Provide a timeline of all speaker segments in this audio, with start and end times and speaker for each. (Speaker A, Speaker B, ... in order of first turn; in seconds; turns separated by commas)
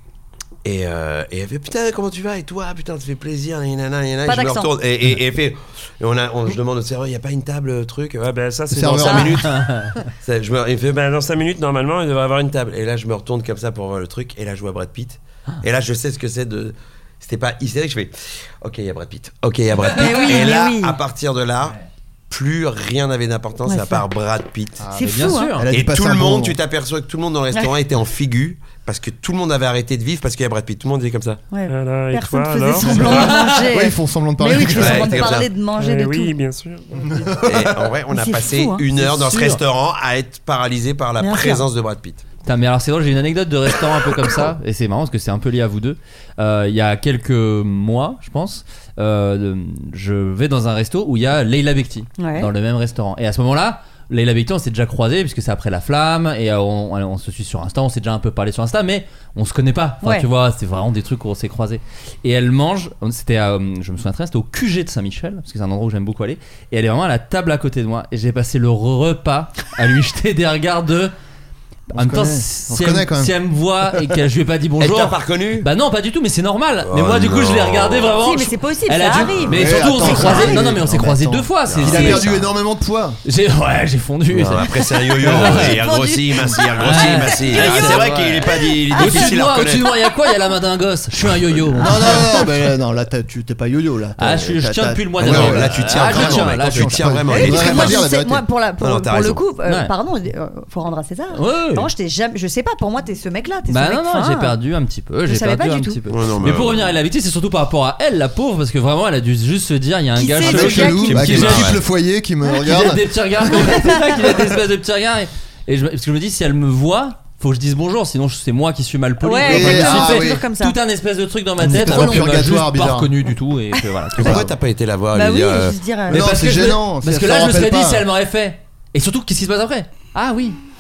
Speaker A: 0.6-21.8, Speaker B: 4.2-4.7, Speaker C: 8.3-9.0, Speaker D: 8.7-9.3, Speaker B: 9.0-9.5, Speaker E: 9.5-10.0, Speaker C: 11.6-12.1, Speaker B: 19.9-21.0, Speaker A: 22.3-24.9, Speaker B: 23.7-24.0, Speaker D: 24.8-26.6, Speaker B: 24.9-25.6, Speaker E: 25.0-25.7, Speaker A: 25.7-31.4, Speaker B: 31.5-36.4, Speaker C: 31.7-33.3, Speaker E: 33.0-33.7, Speaker D: 33.7-35.4, Speaker A: 34.8-35.5, Speaker C: 35.8-36.9, Speaker D: 37.1-37.9, Speaker A: 37.4-42.2, Speaker B: 38.1-38.9, Speaker E: 38.9-39.6, Speaker B: 41.2-41.7, Speaker E: 42.4-71.1, Speaker B: 52.2-52.5, Speaker B: 60.0-60.3, Speaker D: 71.9-73.3, Speaker E: 71.9-82.3, Speaker A: 74.8-75.7, Speaker A: 76.9-78.2, Speaker B: 78.2-80.8, Speaker D: 79.5-83.2, Speaker A: 81.7-82.5, Speaker E: 83.2-85.8, Speaker A: 84.3-89.9, Speaker B: 85.5-88.0, Speaker E: 86.8-92.5, Speaker D: 91.8-98.5, Speaker E: 94.2-97.2, Speaker A: 95.2-98.1, Speaker B: 97.3-104.6, Speaker A: 98.8-99.4, Speaker E: 99.7-99.9, Speaker E: 101.3-101.9, Speaker E: 103.7-111.8, Speaker B: 105.3-106.0, Speaker A: 106.1-107.0, Speaker B: 110.2-111.3, Speaker D: 110.4-113.0, Speaker A: 110.5-111.8, Speaker E: 112.6-124.5, Speaker B: 113.7-114.2, Speaker B: 119.2-120.8, Speaker D: 119.4-120.5, Speaker D: 121.6-123.1, Speaker A: 124.2-125.8, Speaker B: 125.1-126.3, Speaker D: 126.1-128.1, Speaker E: 126.1-130.6